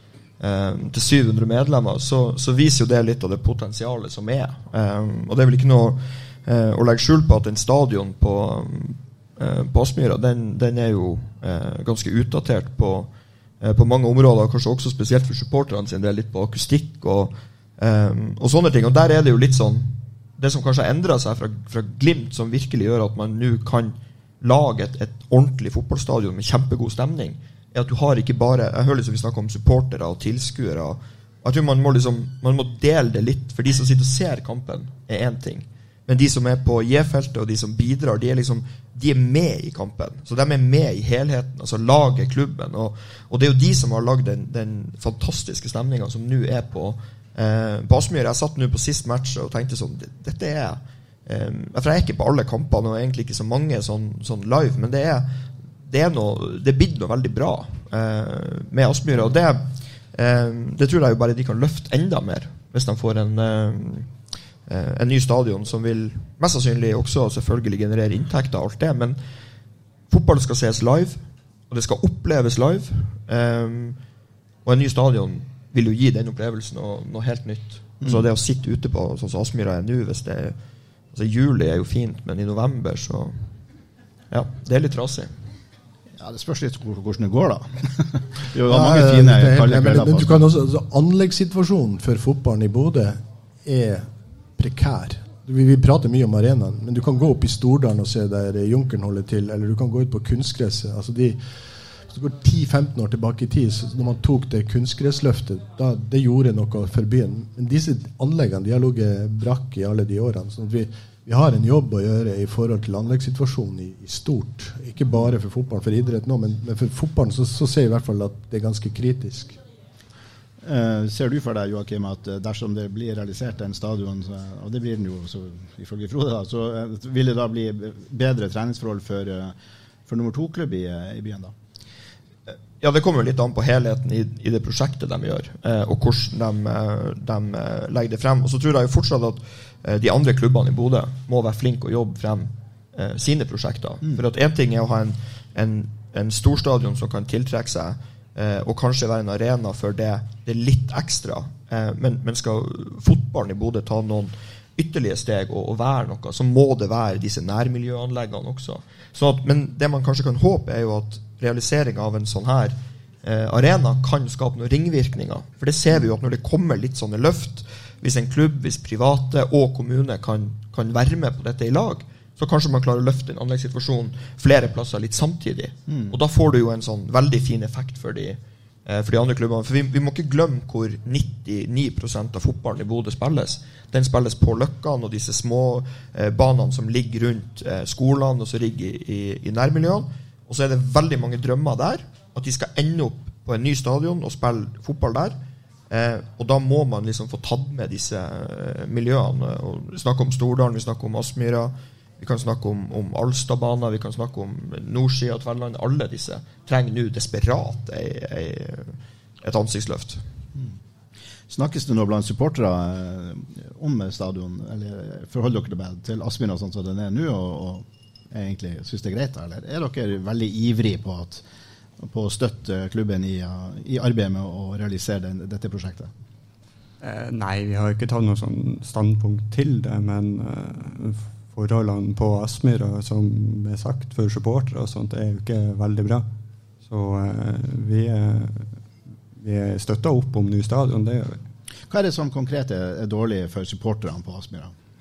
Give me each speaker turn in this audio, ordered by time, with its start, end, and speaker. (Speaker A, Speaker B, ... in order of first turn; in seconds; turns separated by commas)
Speaker A: 0.4-64.1, Speaker A: 64.7-69.2, Speaker A: 70.1-74.0, Speaker A: 74.7-80.6, Speaker A: 81.1-83.5, Speaker A: 84.3-85.3, Speaker B: 86.2-90.5, Speaker C: 88.7-101.4, Speaker C: 102.1-119.6, Speaker B: 120.6-129.5, Speaker B: 130.1-131.5, Speaker A: 132.5-195.4, Speaker B: 175.9-176.2, Speaker A: 195.9-210.2, Speaker B: 211.5-221.4, Speaker B: 222.0-226.1, Speaker D: 227.0-236.3, Speaker D: 236.8-241.4, Speaker B: 241.9-244.7